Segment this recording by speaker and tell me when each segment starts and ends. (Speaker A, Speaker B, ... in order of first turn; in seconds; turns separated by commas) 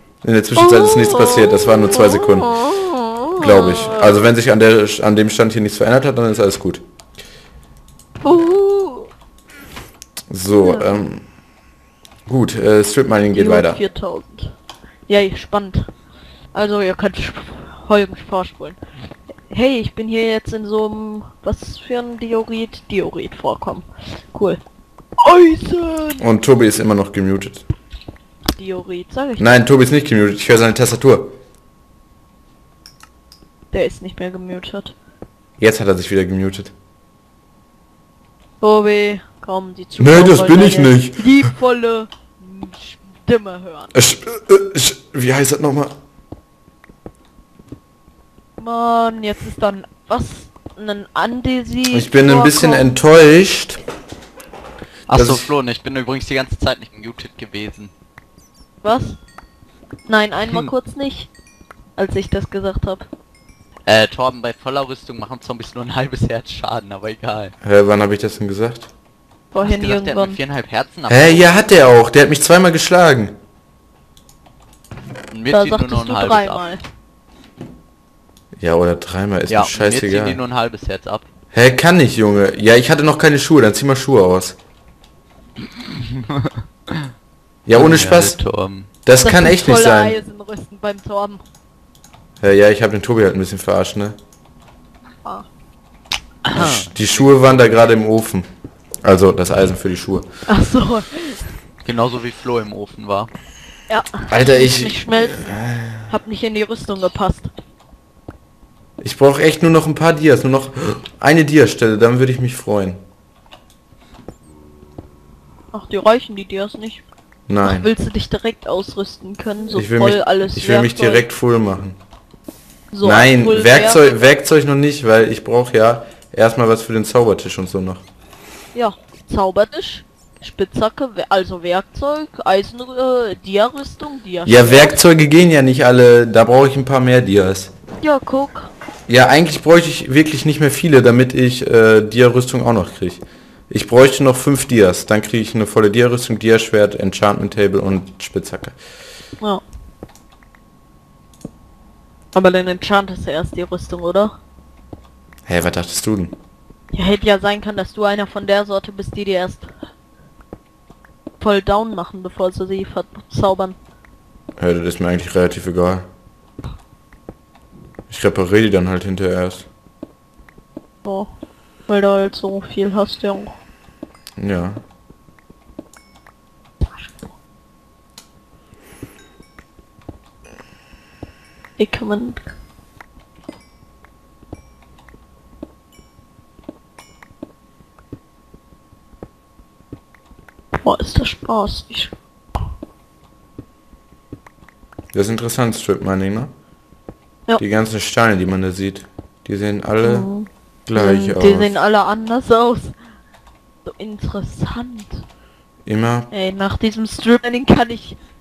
Speaker A: 0.2-2.6, Speaker B: 0.6-4.2, Speaker A: 3.4-6.8, Speaker B: 8.2-9.1, Speaker A: 10.3-11.2, Speaker B: 10.6-11.0, Speaker A: 12.3-13.8, Speaker B: 13.3-14.5, Speaker B: 15.1-15.9, Speaker B: 16.5-18.8, Speaker B: 19.5-24.6, Speaker B: 25.2-26.3, Speaker A: 26.2-27.6, Speaker B: 28.5-29.6, Speaker A: 29.4-31.3, Speaker B: 33.7-34.9, Speaker A: 35.6-36.7, Speaker B: 38.6-44.0, Speaker A: 40.0-41.5, Speaker A: 43.9-45.9, Speaker B: 48.6-53.0, Speaker A: 51.9-53.8, Speaker C: 55.1-57.9, Speaker A: 55.1-55.5, Speaker B: 58.8-59.2, Speaker B: 60.1-61.3, Speaker C: 60.4-60.7, Speaker B: 62.0-63.1, Speaker C: 63.8-67.5, Speaker A: 67.6-68.9, Speaker B: 69.5-70.4, Speaker C: 69.6-71.7, Speaker A: 71.1-73.3, Speaker C: 75.3-76.7, Speaker B: 75.5-76.8, Speaker A: 78.6-80.4, Speaker C: 79.5-81.3, Speaker A: 81.5-84.6, Speaker C: 85.8-87.0, Speaker A: 87.7-88.4, Speaker C: 87.7-88.9, Speaker A: 89.0-90.2, Speaker B: 89.2-91.4, Speaker A: 92.4-94.2, Speaker C: 96.5-97.8, Speaker A: 96.5-98.5, Speaker A: 99.0-100.3, Speaker B: 100.5-101.5, Speaker C: 101.8-103.3, Speaker B: 103.9-107.5, Speaker A: 104.3-106.1, Speaker A: 109.0-113.0, Speaker B: 115.7-117.0, Speaker A: 117.5-117.9, Speaker B: 117.6-121.2, Speaker A: 119.7-122.0, Speaker B: 122.9-124.0, Speaker A: 123.0-128.0, Speaker B: 128.7-135.0, Speaker A: 134.4-137.7, Speaker B: 138.0-138.7, Speaker A: 139.1-148.8, Speaker B: 152.3-154.3, Speaker A: 155.5-156.3, Speaker B: 156.9-159.7, Speaker B: 161.4-163.8, Speaker A: 164.6-166.1, Speaker A: 168.1-169.7, Speaker B: 171.0-171.3, Speaker B: 171.9-173.6, Speaker A: 174.4-174.8, Speaker B: 181.8-182.5, Speaker B: 190.8-192.1, Speaker A: 195.1-196.5, Speaker A: 197.6-200.3, Speaker B: 200.0-202.9, Speaker A: 200.8-201.8, Speaker B: 203.8-205.2, Speaker A: 205.8-206.3, Speaker B: 206.3-208.2